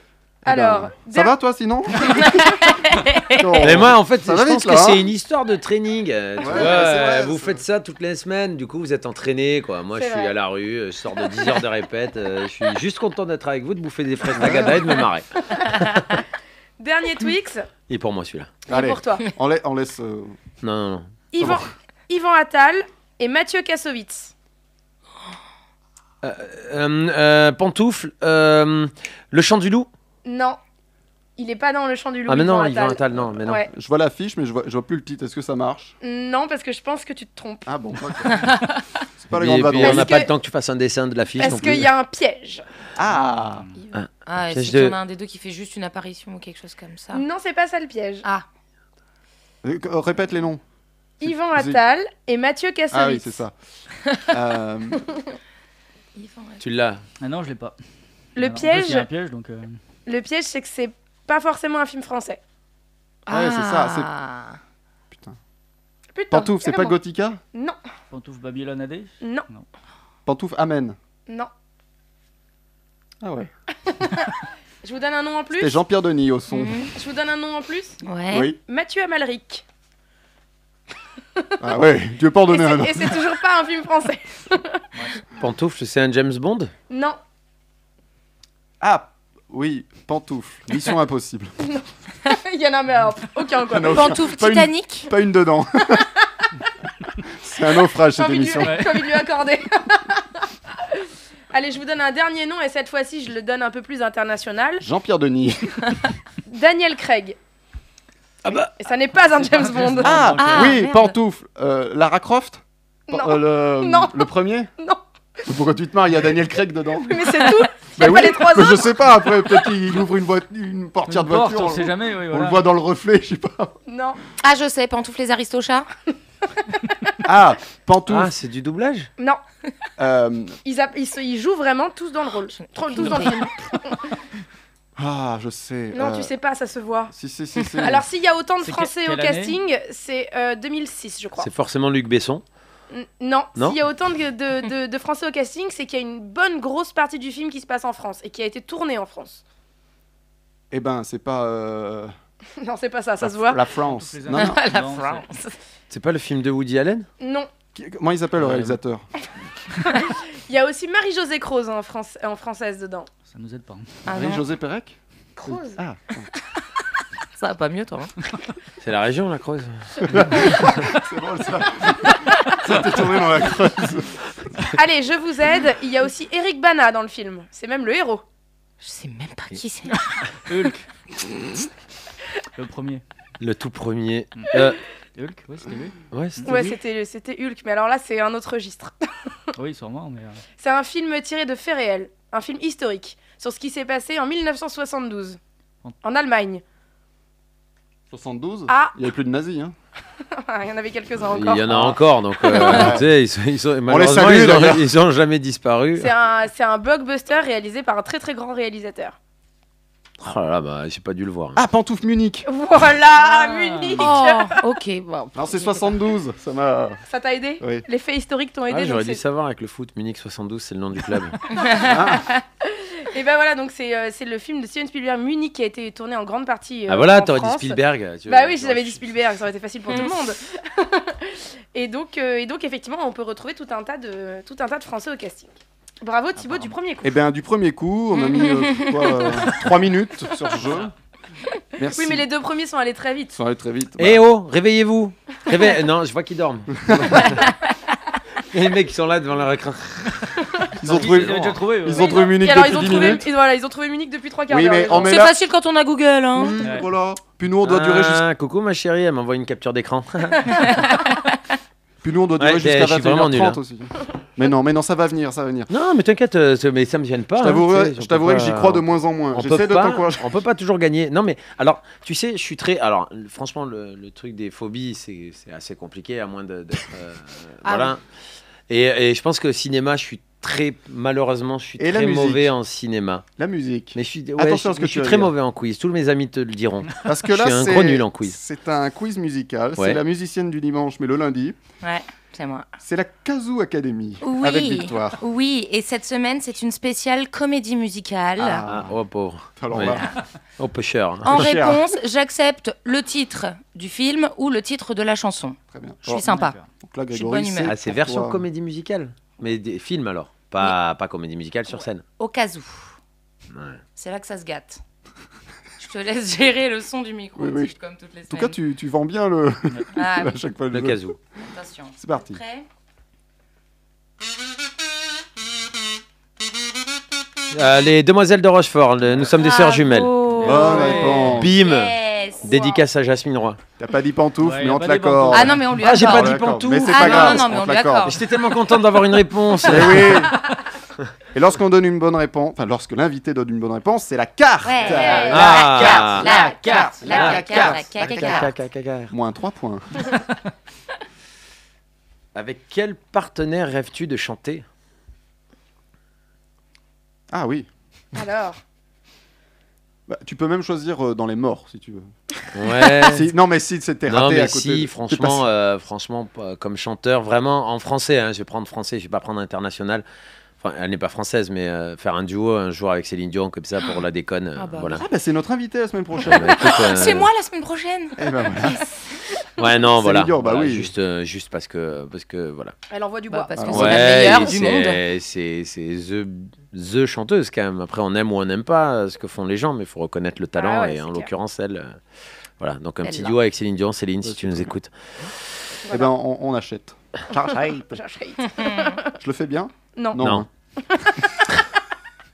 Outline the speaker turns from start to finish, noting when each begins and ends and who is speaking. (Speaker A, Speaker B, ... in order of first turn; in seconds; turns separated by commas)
Speaker A: 0.4-2.8, Speaker B: 0.5-1.3, Speaker C: 2.6-3.5, Speaker A: 3.3-5.1, Speaker D: 3.6-15.3, Speaker A: 6.4-7.6, Speaker B: 9.9-10.3, Speaker A: 14.3-14.9, Speaker B: 15.6-16.1, Speaker B: 16.8-17.7, Speaker D: 17.9-18.5, Speaker B: 18.7-19.2, Speaker A: 18.7-20.4, Speaker D: 20.6-21.1, Speaker B: 21.3-24.3, Speaker A: 21.4-21.7, Speaker D: 26.2-29.9, Speaker B: 30.2-30.6, Speaker B: 31.4-33.7, Speaker D: 32.3-33.6, Speaker A: 33.7-35.9, Speaker B: 36.0-37.7, Speaker A: 37.6-38.5, Speaker A: 39.2-40.2, Speaker D: 39.3-41.9, Speaker B: 39.8-40.3, Speaker B: 41.4-42.6, Speaker A: 41.4-41.8, Speaker A: 43.0-43.6, Speaker E: 43.1-43.8, Speaker D: 43.9-45.0, Speaker C: 44.3-47.2, Speaker B: 47.1-48.2, Speaker A: 49.6-50.6, Speaker B: 51.2-53.4, Speaker A: 51.2-51.8, Speaker A: 52.9-53.5, Speaker A: 54.2-55.0, Speaker C: 56.1-56.6, Speaker D: 56.6-57.0, Speaker E: 57.2-57.8, Speaker B: 58.4-59.1, Speaker E: 58.4-59.8, Speaker B: 60.1-62.4, Speaker C: 63.2-64.6, Speaker A: 63.3-64.1, Speaker A: 65.1-65.3, Speaker B: 66.1-67.0, Speaker A: 66.3-67.4, Speaker E: 68.1-69.6, Speaker B: 69.2-69.5, Speaker A: 70.2-71.0, Speaker A: 73.2-73.5, Speaker B: 74.0-74.3, Speaker B: 74.8-75.8, Speaker A: 75.5-76.8, Speaker C: 76.5-76.9, Speaker B: 76.9-78.0, Speaker C: 78.0-78.5, Speaker A: 78.3-78.6, Speaker B: 78.7-79.6, Speaker A: 81.6-83.2, Speaker B: 82.5-84.8, Speaker D: 85.4-86.7, Speaker B: 86.9-87.2, Speaker A: 88.8-91.5, Speaker B: 91.7-94.2, Speaker A: 93.7-96.0, Speaker C: 93.9-95.1, Speaker A: 97.3-98.9, Speaker B: 98.2-104.8, Speaker E: 98.6-99.0, Speaker A: 104.8-106.0, Speaker B: 106.5-107.4, Speaker D: 108.4-108.7, Speaker B: 108.5-110.2, Speaker E: 109.3-110.8, Speaker A: 110.0-114.7, Speaker C: 110.4-111.2, Speaker B: 113.1-115.0, Speaker A: 115.5-117.3, Speaker B: 117.1-119.2, Speaker A: 118.0-123.8, Speaker E: 121.1-122.6, Speaker B: 123.9-124.2, Speaker C: 124.4-125.9, Speaker A: 127.2-128.3, Speaker D: 128.1-129.1, Speaker A: 130.0-130.6, Speaker B: 130.6-134.0, Speaker C: 132.6-133.5, Speaker A: 135.0-136.3, Speaker B: 135.9-137.1, Speaker A: 137.1-138.0, Speaker B: 137.8-141.5, Speaker E: 138.6-139.6, Speaker D: 141.4-142.4, Speaker B: 142.9-149.4, Speaker A: 150.7-152.1, Speaker B: 152.6-153.6, Speaker A: 153.2-154.6, Speaker E: 153.8-155.2, Speaker C: 154.3-155.6, Speaker D: 155.9-157.1, Speaker B: 157.2-157.5, Speaker A: 157.7-159.1, Speaker B: 159.9-163.1, Speaker E: 163.3-164.0, Speaker C: 164.1-164.4, Speaker A: 164.1-166.3, Speaker C: 167.3-168.1, Speaker D: 168.8-170.5, Speaker A: 170.1-174.2, Speaker B: 174.7-178.2, Speaker C: 178.8-180.3, Speaker E: 180.4-180.8, Speaker E: 182.6-183.0, Speaker D: 183.4-184.8, Speaker E: 185.1-186.7, Speaker D: 186.1-186.5, Speaker B: 186.4-188.9, Speaker E: 189.6-190.4, Speaker B: 190.6-195.4, Speaker B: 196.0-196.6, Speaker A: 198.1-199.7, Speaker B: 198.7-198.9, Speaker B: 200.3-201.7, Speaker D: 201.3-206.1, Speaker A: 201.6-203.1, Speaker B: 202.5-202.9, Speaker A: 203.9-204.9, Speaker B: 206.0-209.2, Speaker D: 210.2-211.6, Speaker A: 211.5-212.5, Speaker B: 212.4-214.6, Speaker E: 213.2-214.0, Speaker C: 214.0-216.0, Speaker A: 215.3-217.0, Speaker B: 217.1-219.2, Speaker D: 218.7-221.4, Speaker C: 221.5-222.4, Speaker A: 221.8-222.3, Speaker B: 222.6-237.1, Speaker D: 226.9-229.0, Speaker E: 236.4-236.7, Speaker A: 237.0-240.9, Speaker C: 238.2-239.5, Speaker E: 240.6-240.9, Speaker A: 241.8-242.2, Speaker B: 241.9-243.3, Speaker A: 243.3-244.2, Speaker D: 244.0-247.5, Speaker A: 246.8-247.4, Speaker D: 248.5-250.4, Speaker E: 250.8-252.2, Speaker A: 250.8-253.3, Speaker B: 251.8-255.2, Speaker A: 254.5-255.3, Speaker C: 254.9-256.6, Speaker A: 256.4-258.2, Speaker E: 256.6-256.9, Speaker D: 257.6-260.7, Speaker C: 260.5-261.4, Speaker A: 262.0-265.7, Speaker D: 262.4-263.6, Speaker D: 265.7-278.0, Speaker A: 267.4-270.4, Speaker A: 277.6-277.9, Speaker D: 278.7-283.2, Speaker A: 281.8-282.5, Speaker A: 283.4-285.3, Speaker D: 283.9-288.4, Speaker A: 287.0-291.6, Speaker C: 291.8-292.7, Speaker A: 292.8-295.2, Speaker C: 294.2-298.6, Speaker A: 298.4-299.0, Speaker D: 298.7-300.0, Speaker A: 299.6-300.1, Speaker C: 299.8-300.1, Speaker D: 300.6-301.5, Speaker C: 301.2-306.6, Speaker A: 301.2-301.8, Speaker A: 305.7-306.2, Speaker E: 306.1-306.7, Speaker A: 306.8-308.4, Speaker C: 307.1-307.7, Speaker D: 307.6-312.0, Speaker C: 311.7-312.9, Speaker D: 313.5-313.8, Speaker C: 313.9-314.8, Speaker C: 315.8-318.6, Speaker A: 317.4-317.7, Speaker A: 318.3-321.4, Speaker C: 319.9-320.4, Speaker D: 320.7-321.2, Speaker C: 321.5-322.6, Speaker A: 322.0-322.4, Speaker D: 327.5-330.1, Speaker C: 329.4-332.8, Speaker E: 330.4-331.4, Speaker A: 330.4-331.6, Speaker D: 331.3-333.6, Speaker A: 333.8-338.2, Speaker E: 334.4-335.6, Speaker C: 335.3-338.2, Speaker D: 335.8-340.3, Speaker A: 339.6-340.4, Speaker C: 339.8-340.1, Speaker A: 341.3-348.5, Speaker C: 344.6-348.5, Speaker B: 344.9-345.4, Speaker D: 345.3-349.1, Speaker A: 349.1-350.2, Speaker D: 352.3-354.6, Speaker A: 357.3-357.7, Speaker B: 358.1-358.6, Speaker A: 360.1-362.0, Speaker D: 362.5-363.3, Speaker A: 363.0-365.5, Speaker D: 364.1-370.0, Speaker D: 370.6-375.0, Speaker C: 374.6-375.0, Speaker A: 374.9-376.6, Speaker D: 376.2-377.3, Speaker C: 376.2-379.2, Speaker A: 378.2-378.9, Speaker D: 379.6-382.7, Speaker A: 380.0-380.9, Speaker B: 382.9-383.9, Speaker C: 383.3-385.0, Speaker A: 383.5-384.1, Speaker D: 383.7-392.0, Speaker B: 390.6-391.3, Speaker D: 392.6-394.9, Speaker C: 393.0-393.4, Speaker A: 394.2-394.7, Speaker A: 395.9-398.0, Speaker B: 397.9-399.1, Speaker C: 398.6-399.0, Speaker A: 399.2-400.5, Speaker B: 399.9-400.2, Speaker D: 400.2-400.4, Speaker B: 400.9-401.4